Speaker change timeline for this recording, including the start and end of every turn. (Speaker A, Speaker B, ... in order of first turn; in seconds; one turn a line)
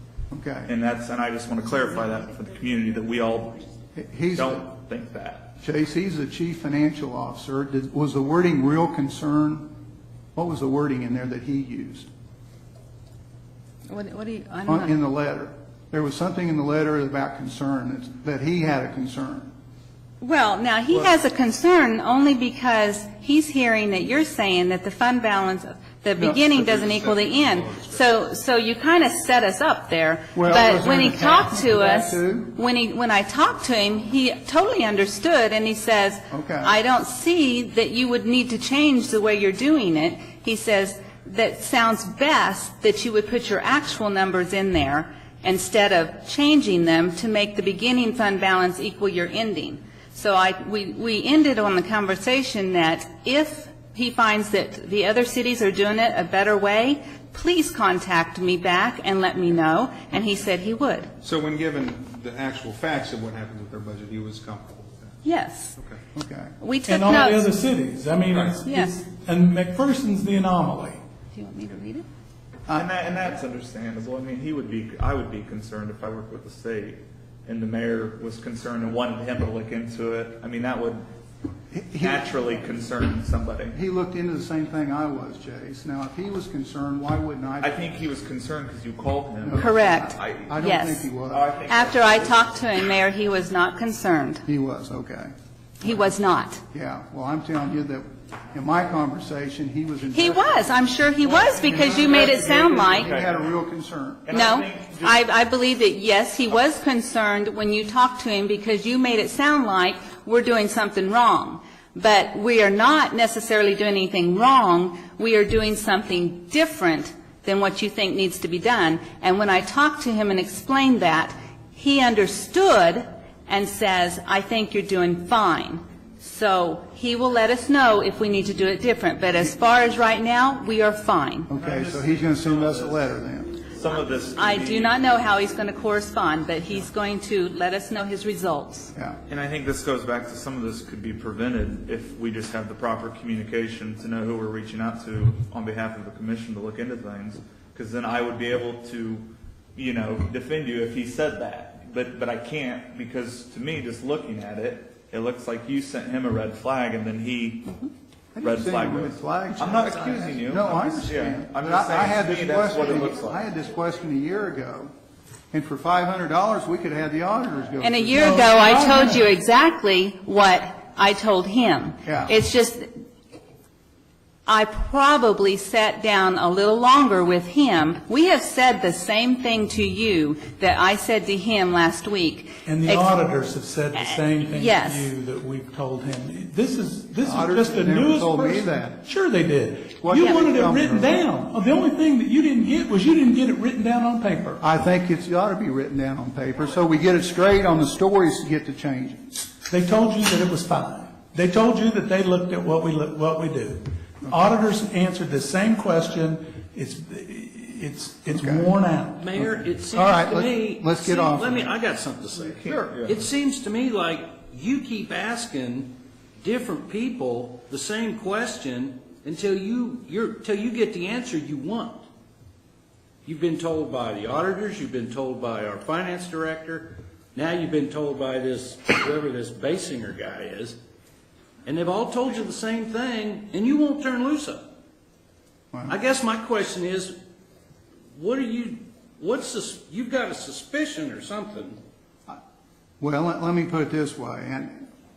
Speaker A: 0.3-0.7
Speaker B: 0.7-3.7
Speaker A: 4.0-4.7
Speaker B: 4.3-5.5
Speaker A: 5.6-9.7
Speaker A: 10.3-12.1
Speaker C: 13.9-14.9
Speaker A: 14.7-19.5
Speaker C: 20.2-61.1
Speaker D: 26.4-28.1
Speaker A: 30.4-32.5
Speaker A: 36.3-36.8
Speaker D: 61.2-65.1
Speaker C: 65.2-65.8
Speaker A: 66.2-66.5
Speaker C: 66.6-67.5
Speaker E: 66.9-71.0
Speaker D: 68.3-68.6
Speaker C: 68.6-69.0
Speaker C: 71.3-72.1
Speaker B: 72.7-81.0
Speaker A: 81.7-82.4
Speaker B: 82.0-83.8
Speaker A: 83.7-87.8
Speaker B: 87.6-90.6
Speaker A: 89.4-91.4
Speaker C: 89.6-91.1
Speaker B: 91.3-92.5
Speaker C: 91.7-94.4
Speaker A: 94.5-95.3
Speaker C: 95.8-96.6
Speaker A: 96.7-100.8
Speaker C: 100.1-103.1
Speaker B: 101.4-102.3
Speaker A: 101.5-104.2
Speaker B: 102.9-103.5
Speaker B: 104.3-105.2
Speaker C: 104.3-131.5
Speaker A: 131.5-133.6
Speaker B: 131.6-134.9
Speaker C: 133.9-138.9
Speaker B: 139.3-157.8
Speaker A: 158.3-164.9
Speaker B: 158.4-163.4
Speaker A: 165.5-168.4
Speaker C: 167.8-173.0
Speaker E: 168.2-169.2
Speaker A: 172.1-172.3
Speaker C: 174.5-183.2
Speaker E: 182.7-194.6
Speaker C: 183.9-185.1
Speaker A: 187.2-189.0
Speaker A: 190.0-191.2
Speaker C: 190.2-190.5
Speaker A: 194.6-199.4
Speaker E: 199.7-209.3
Speaker A: 208.3-208.7
Speaker F: 209.2-222.0
Speaker A: 209.9-211.7
Speaker B: 212.4-213.2
Speaker F: 223.2-230.8
Speaker F: 231.7-234.6
Speaker A: 235.7-236.0
Speaker F: 235.9-237.1
Speaker F: 238.2-241.8
Speaker A: 243.0-244.9